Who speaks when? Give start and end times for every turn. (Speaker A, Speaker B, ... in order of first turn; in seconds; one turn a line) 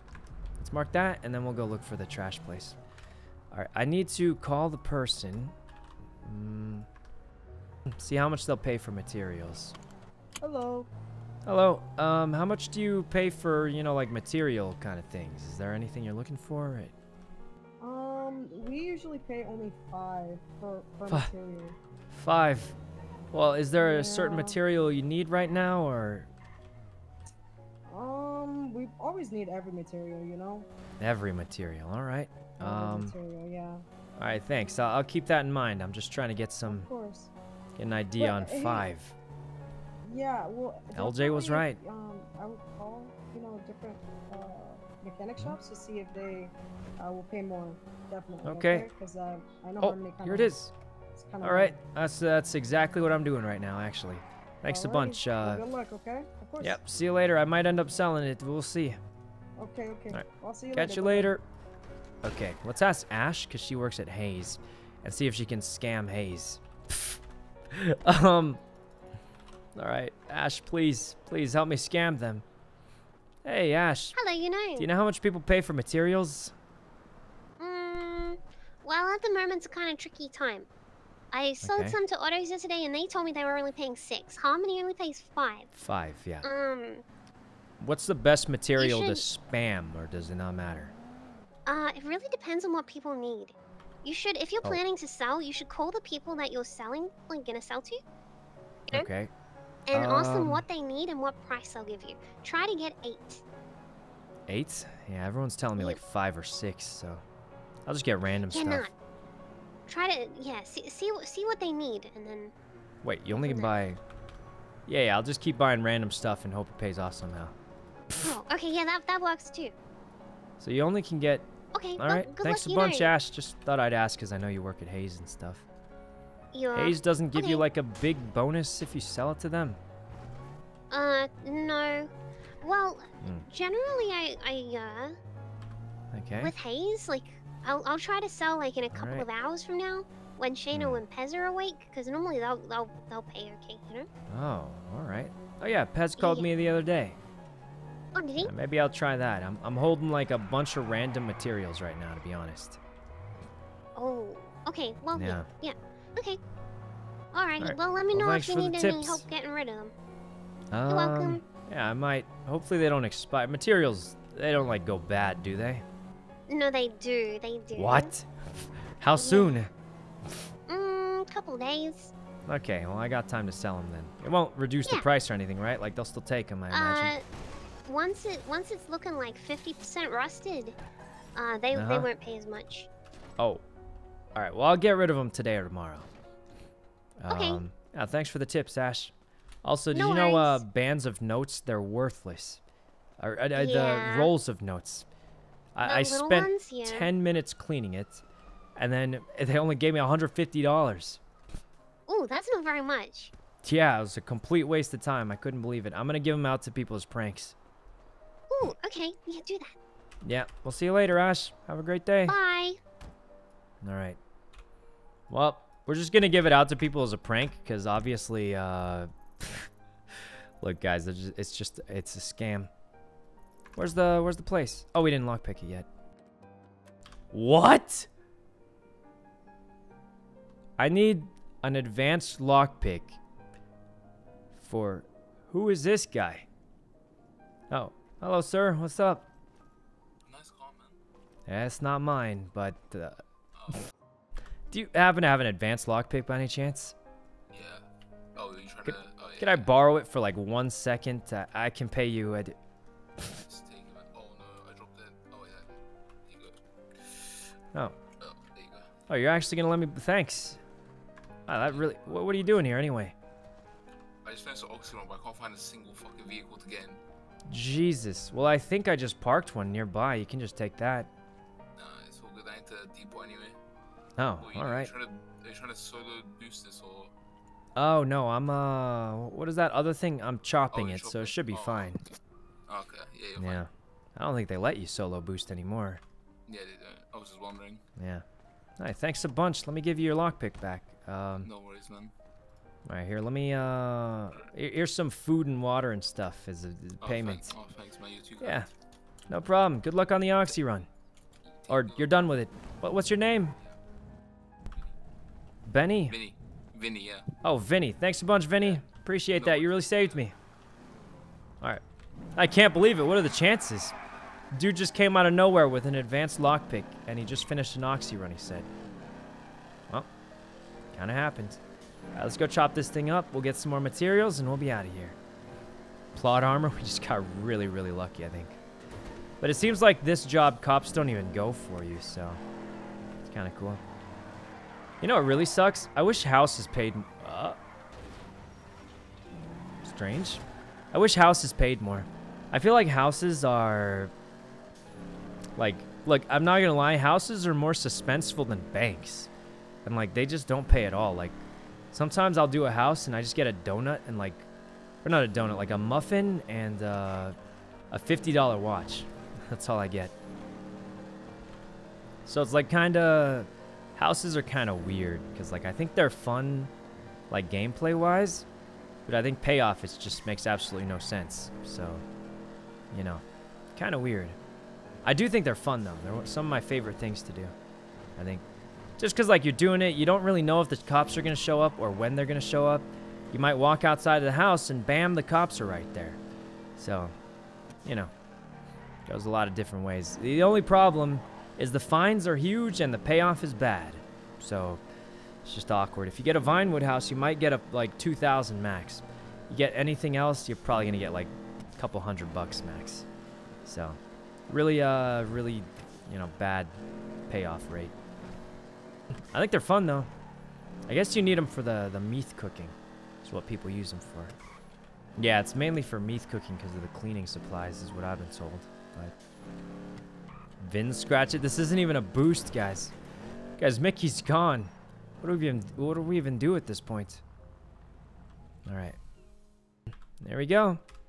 Speaker A: 0.6-2.8
Speaker A: 3.5-5.5
Speaker A: 6.2-6.9
Speaker A: 7.9-9.7
Speaker B: 10.4-10.9
Speaker A: 11.4-16.9
Speaker B: 17.8-21.7
Speaker A: 22.1-22.7
Speaker A: 23.3-26.3
Speaker B: 23.8-24.6
Speaker B: 27.9-30.7
Speaker A: 31.0-33.1
Speaker B: 32.6-33.8
Speaker A: 34.2-36.9
Speaker B: 36.6-37.3
Speaker A: 37.8-39.1
Speaker B: 38.2-38.9
Speaker B: 40.0-50.5
Speaker A: 40.9-41.8
Speaker A: 48.4-48.9
Speaker A: 49.8-50.7
Speaker B: 51.1-51.8
Speaker A: 51.4-55.6
Speaker B: 54.6-56.8
Speaker A: 56.6-59.0
Speaker B: 59.6-61.4
Speaker A: 60.1-61.4
Speaker A: 62.2-67.2
Speaker A: 67.7-68.6
Speaker A: 69.8-72.4
Speaker A: 73.4-74.2
Speaker C: 74.1-74.9
Speaker A: 74.8-76.5
Speaker C: 77.6-80.7
Speaker C: 81.3-85.7
Speaker A: 81.6-82.0
Speaker A: 85.7-86.5
Speaker C: 86.4-87.0
Speaker A: 87.8-90.9
Speaker C: 88.8-89.2
Speaker C: 91.7-98.0
Speaker A: 98.9-99.3
Speaker C: 99.9-103.4
Speaker A: 99.9-100.6
Speaker A: 104.5-107.2
Speaker A: 107.8-108.9
Speaker C: 108.5-108.9
Speaker C: 109.9-112.5
Speaker A: 113.0-114.0
Speaker C: 113.3-113.7
Speaker A: 114.9-117.5
Speaker C: 118.2-119.7
Speaker A: 120.6-125.6
Speaker C: 121.7-123.1
Speaker C: 126.5-127.6
Speaker A: 126.7-129.8
Speaker C: 130.9-132.1
Speaker C: 132.6-135.2
Speaker A: 133.2-133.5
Speaker A: 136.1-136.5
Speaker C: 136.4-144.1
Speaker A: 138.9-139.2
Speaker A: 140.7-141.0
Speaker A: 144.3-147.2
Speaker C: 146.2-146.4
Speaker C: 148.1-148.5
Speaker A: 148.4-152.8
Speaker C: 153.9-156.4
Speaker A: 155.1-155.5
Speaker C: 157.3-159.9
Speaker A: 157.6-159.2
Speaker A: 160.7-165.8
Speaker C: 160.9-161.4
Speaker C: 166.5-168.1
Speaker A: 167.8-169.7
Speaker C: 169.2-169.6
Speaker C: 170.7-172.1
Speaker A: 172.5-177.1
Speaker C: 176.7-177.2
Speaker C: 177.9-180.7
Speaker C: 181.3-182.9
Speaker A: 181.7-182.1
Speaker A: 184.3-186.1
Speaker A: 187.2-189.1
Speaker C: 187.3-187.6
Speaker A: 189.6-192.6
Speaker C: 189.9-190.6
Speaker A: 193.2-195.1
Speaker C: 193.6-194.3
Speaker A: 195.7-198.2
Speaker C: 195.8-197.1
Speaker A: 198.8-201.2
Speaker C: 202.1-203.3
Speaker A: 203.6-207.5
Speaker C: 208.5-209.7
Speaker A: 210.2-212.3
Speaker C: 212.3-212.8
Speaker A: 213.8-214.2
Speaker A: 215.3-219.7
Speaker A: 220.6-222.7
Speaker A: 223.8-225.9
Speaker A: 227.3-228.1
Speaker A: 230.8-233.2
Speaker A: 234.6-236.4
Speaker A: 237.7-239.2
Speaker D: 240.2-240.9
Speaker A: 241.5-243.2
Speaker A: 244.7-246.9
Speaker D: 247.5-249.7
Speaker A: 248.8-252.6
Speaker D: 253.5-255.7
Speaker D: 256.2-256.6
Speaker D: 258.2-258.9
Speaker A: 259.1-260.6
Speaker A: 261.5-263.1
Speaker D: 261.5-262.8
Speaker D: 264.2-267.0
Speaker A: 267.5-271.1
Speaker D: 271.8-273.6
Speaker A: 274.2-274.9
Speaker D: 274.4-277.1
Speaker A: 277.8-282.0
Speaker D: 280.7-282.1
Speaker D: 282.7-283.6
Speaker A: 283.4-286.0
Speaker D: 286.5-287.8
Speaker A: 288.0-288.2
Speaker A: 288.8-291.5
Speaker D: 291.4-292.1
Speaker A: 292.9-297.5
Speaker D: 297.0-298.7
Speaker A: 298.4-298.7
Speaker A: 299.3-300.9
Speaker D: 301.6-302.2
Speaker A: 301.7-303.6
Speaker A: 305.6-306.2
Speaker D: 306.1-307.3
Speaker A: 307.4-310.3
Speaker D: 309.3-310.2
Speaker A: 312.4-313.9
Speaker A: 314.5-318.7
Speaker A: 320.9-321.6
Speaker A: 322.1-325.2
Speaker A: 326.1-328.6
Speaker A: 329.4-332.4
Speaker A: 333.2-333.8
Speaker A: 335.0-337.6
Speaker A: 339.8-340.4
Speaker A: 340.9-344.1
Speaker A: 345.6-349.3
Speaker A: 349.8-351.4
Speaker A: 351.9-354.4
Speaker A: 355.0-357.4
Speaker A: 357.9-360.1
Speaker A: 362.2-366.7
Speaker A: 367.3-368.4
Speaker A: 369.1-372.0
Speaker A: 372.9-373.2
Speaker A: 373.8-374.4
Speaker A: 375.0-377.5
Speaker A: 378.2-378.4
Speaker A: 379.0-386.2
Speaker A: 386.8-387.1
Speaker A: 387.8-388.1
Speaker A: 389.1-394.8
Speaker A: 395.4-403.1
Speaker A: 403.6-406.8
Speaker A: 407.3-407.9
Speaker A: 409.3-410.1
Speaker A: 410.9-414.3
Speaker A: 415.2-419.1
Speaker A: 420.6-422.9
Speaker A: 423.6-427.2
Speaker A: 428.6-429.0
Speaker A: 430.2-430.8